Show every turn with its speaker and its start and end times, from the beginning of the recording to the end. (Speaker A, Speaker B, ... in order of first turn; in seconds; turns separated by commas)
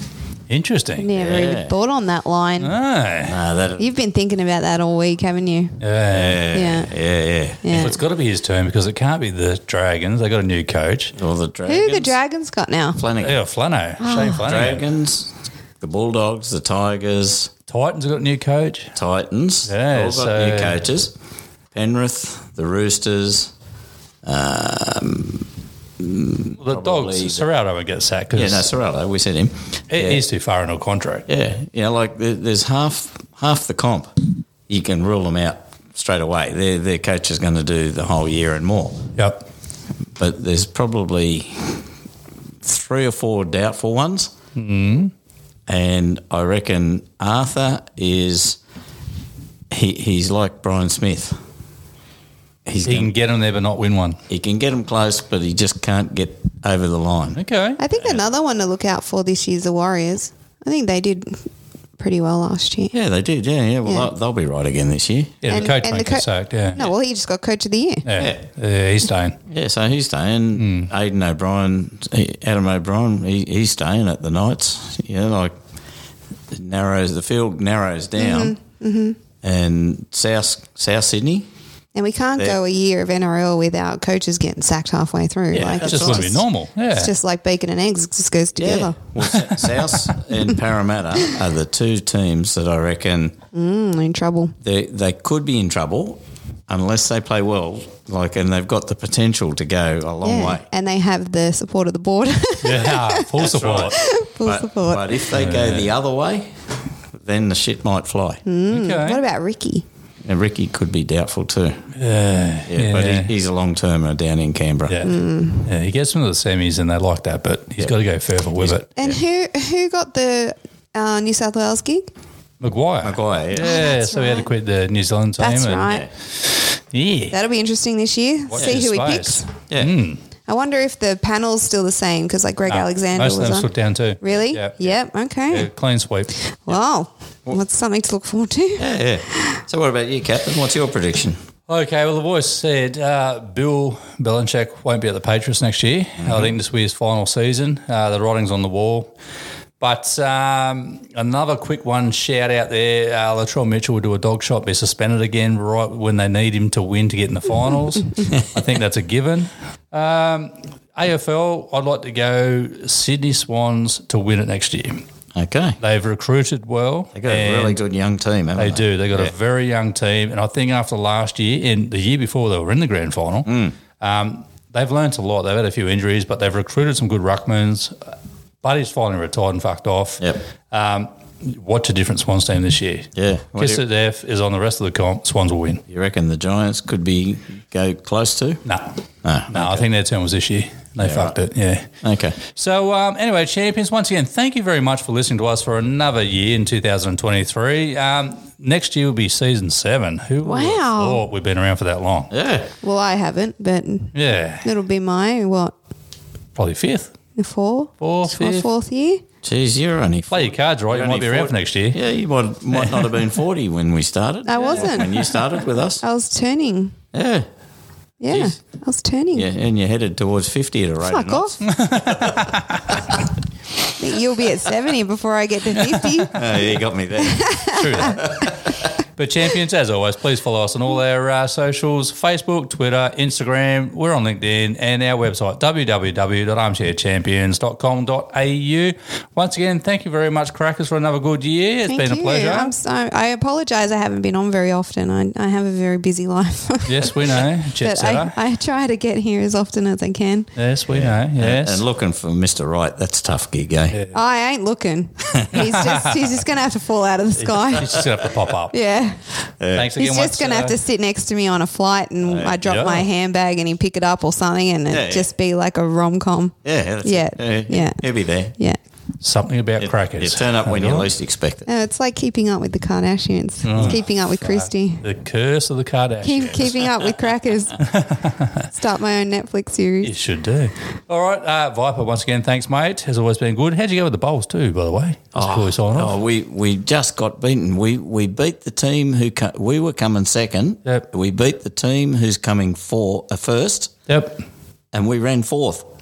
Speaker A: 0.5-1.4, Speaker B: 1.0-2.8, Speaker C: 1.2-1.7, Speaker A: 2.6-3.4, Speaker C: 3.3-3.9, Speaker B: 3.8-5.8, Speaker A: 5.8-6.4, Speaker C: 6.1-7.9, Speaker B: 6.5-6.9, Speaker B: 7.6-8.0, Speaker A: 7.7-11.2, Speaker C: 11.2-12.2, Speaker B: 11.7-13.0, Speaker C: 13.0-13.4, Speaker A: 13.2-14.8, Speaker B: 14.0-14.5, Speaker C: 14.4-17.5, Speaker A: 17.7-18.9, Speaker C: 18.9-21.1, Speaker A: 19.7-20.8, Speaker C: 21.7-23.5, Speaker C: 24.2-25.5, Speaker C: 26.0-27.5, Speaker A: 26.6-28.7, Speaker C: 28.3-30.2, Speaker A: 29.9-31.3, Speaker C: 31.3-39.0, Speaker A: 39.2-39.5, Speaker C: 40.2-41.8, Speaker C: 42.6-44.3, Speaker A: 44.6-45.1, Speaker C: 45.7-48.6, Speaker C: 49.7-51.4, Speaker C: 52.7-53.1, Speaker A: 52.9-54.2, Speaker C: 54.3-57.4, Speaker A: 57.4-57.9, Speaker B: 57.8-62.9, Speaker C: 62.9-65.7, Speaker B: 63.9-64.1, Speaker A: 65.4-66.8, Speaker B: 65.5-68.1, Speaker A: 68.1-69.4, Speaker C: 69.5-75.5, Speaker A: 70.6-70.9, Speaker C: 76.5-78.5, Speaker B: 78.2-79.2, Speaker C: 79.4-81.5, Speaker B: 82.0-89.0, Speaker A: 85.5-87.1, Speaker C: 85.7-86.4, Speaker C: 88.6-93.3, Speaker A: 89.2-90.1, Speaker B: 93.5-94.5, Speaker C: 94.6-100.6, Speaker B: 100.2-105.3, Speaker A: 102.6-104.0, Speaker C: 103.4-108.4, Speaker A: 105.3-105.9, Speaker B: 108.5-109.8, Speaker A: 108.7-109.2, Speaker C: 110.2-111.9, Speaker A: 112.0-113.3, Speaker C: 112.7-115.0, Speaker A: 114.9-118.9, Speaker B: 115.0-115.7, Speaker C: 118.6-119.2, Speaker B: 119.0-122.1, Speaker A: 122.6-127.4, Speaker C: 123.0-123.7, Speaker B: 123.5-124.5, Speaker B: 125.4-126.1, Speaker C: 125.8-126.1, Speaker B: 127.3-129.5, Speaker A: 128.5-130.2, Speaker B: 130.5-133.7, Speaker A: 132.7-136.3, Speaker B: 134.2-135.7, Speaker B: 136.4-139.6, Speaker C: 138.8-141.4, Speaker A: 141.7-149.1, Speaker C: 146.2-146.5, Speaker A: 149.8-165.1, Speaker C: 158.2-158.5, Speaker C: 165.3-165.8, Speaker A: 165.8-167.8, Speaker C: 167.2-169.3, Speaker A: 168.6-173.5, Speaker C: 173.5-173.8, Speaker A: 174.0-177.9, Speaker A: 178.6-185.8, Speaker C: 183.2-183.8, Speaker C: 185.9-188.6, Speaker A: 188.7-188.9, Speaker C: 189.2-189.8, Speaker A: 189.5-191.8, Speaker C: 191.0-191.3, Speaker C: 192.0-192.4, Speaker A: 192.4-202.3, Speaker B: 200.4-201.2, Speaker C: 202.3-202.7, Speaker B: 202.8-205.7, Speaker A: 204.2-204.7, Speaker A: 206.6-207.1, Speaker B: 207.4-209.2, Speaker A: 208.0-208.7, Speaker C: 209.4-216.0, Speaker A: 210.3-212.0, Speaker A: 212.7-213.2, Speaker B: 214.4-215.3, Speaker A: 214.6-215.3, Speaker B: 216.0-216.9, Speaker C: 217.1-217.5, Speaker B: 218.2-219.5, Speaker C: 218.3-218.6, Speaker C: 219.3-223.2, Speaker B: 221.0-221.6, Speaker A: 221.7-223.0, Speaker B: 224.0-226.3, Speaker A: 225.8-226.7, Speaker C: 226.3-228.9, Speaker B: 227.2-228.1, Speaker A: 227.7-228.4, Speaker A: 229.2-242.7, Speaker B: 241.9-250.5, Speaker A: 246.9-248.4, Speaker A: 250.6-251.8, Speaker C: 250.9-254.0, Speaker A: 253.9-254.2, Speaker B: 254.1-258.0, Speaker A: 255.5-256.3, Speaker A: 257.4-258.7, Speaker C: 257.8-258.1, Speaker B: 258.7-259.3, Speaker C: 259.6-259.9, Speaker A: 259.7-260.7, Speaker B: 260.0-268.8, Speaker C: 262.3-262.6, Speaker A: 262.6-263.1, Speaker C: 264.9-265.3, Speaker C: 266.6-268.5, Speaker A: 269.2-271.1, Speaker C: 269.8-271.6, Speaker B: 271.7-275.0, Speaker A: 273.6-276.9, Speaker B: 276.2-277.8, Speaker A: 277.8-278.7, Speaker B: 278.7-280.1, Speaker A: 280.0-286.2, Speaker C: 285.4-293.9, Speaker A: 294.1-294.4, Speaker C: 294.9-295.9